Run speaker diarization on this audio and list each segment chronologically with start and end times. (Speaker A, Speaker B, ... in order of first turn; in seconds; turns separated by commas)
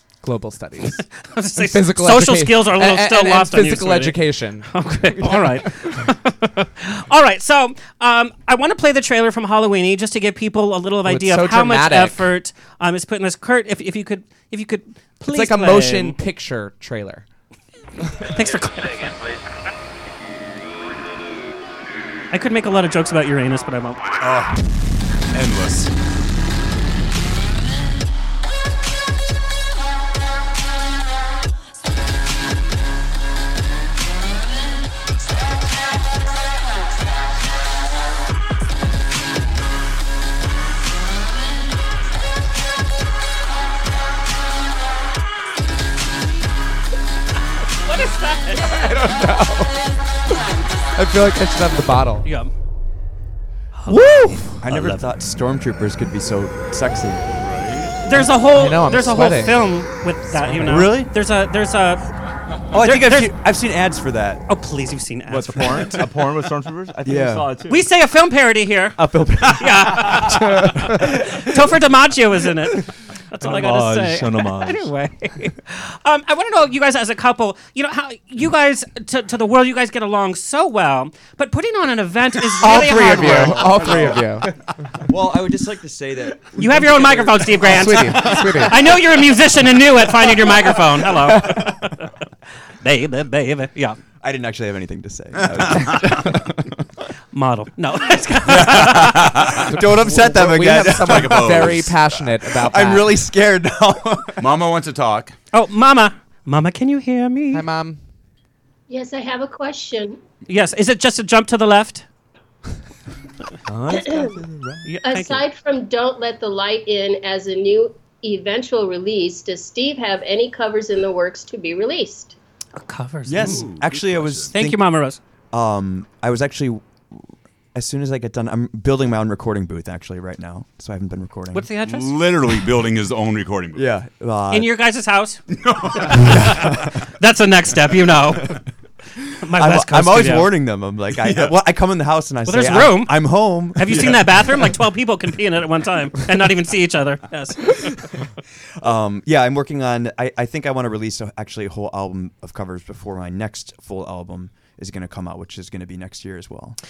Speaker A: 0.2-1.0, Speaker B: 1.3-16.1, Speaker A: 1.6-5.9, Speaker A: 11.0-12.3, Speaker A: 15.2-17.2, Speaker B: 18.2-19.1, Speaker B: 22.3-24.0, Speaker C: 24.2-24.6, Speaker C: 25.3-25.9, Speaker B: 47.8-49.0, Speaker A: 48.6-49.7, Speaker A: 50.9-52.2, Speaker B: 52.2-52.5, Speaker B: 53.7-54.4, Speaker A: 53.9-54.6, Speaker D: 54.6-57.2, Speaker C: 57.4-57.9, Speaker B: 58.0-62.0, Speaker A: 58.5-59.6, Speaker D: 60.6-61.1, Speaker D: 62.7-64.4, Speaker B: 62.8-63.3, Speaker B: 64.5-66.0, Speaker E: 65.3-67.8, Speaker D: 67.0-67.5, Speaker B: 67.7-83.9, Speaker D: 69.0-70.1, Speaker E: 73.4-74.9, Speaker A: 82.6-84.5, Speaker D: 83.8-84.2, Speaker D: 85.1-88.5, Speaker B: 86.5-92.1, Speaker A: 87.6-88.8, Speaker A: 91.3-91.7, Speaker B: 92.8-94.0, Speaker D: 94.2-96.7, Speaker C: 95.5-96.2, Speaker A: 95.8-96.2, Speaker B: 97.3-99.4, Speaker C: 98.4-99.7, Speaker D: 99.5-101.6, Speaker A: 99.7-103.2, Speaker C: 100.5-102.0, Speaker D: 102.7-104.5, Speaker C: 104.4-105.3, Speaker B: 105.5-107.6, Speaker A: 107.5-108.0, Speaker F: 108.9-110.2, Speaker B: 110.5-112.0, Speaker E: 113.7-114.8, Speaker F: 114.0-114.3, Speaker B: 114.8-115.4, Speaker F: 115.0-122.3, Speaker B: 122.8-123.7, Speaker D: 123.3-124.8, Speaker C: 123.3-124.5, Speaker B: 124.5-125.2, Speaker D: 125.5-126.8, Speaker D: 127.7-131.7, Speaker B: 131.5-132.2, Speaker C: 131.8-133.9, Speaker D: 133.8-134.7, Speaker B: 134.5-135.4, Speaker C: 135.5-136.8, Speaker B: 136.0-138.6, Speaker D: 136.2-136.8, Speaker B: 139.4-140.5, Speaker D: 139.5-144.2, Speaker C: 141.2-141.6, Speaker B: 142.4-148.0, Speaker D: 148.8-156.8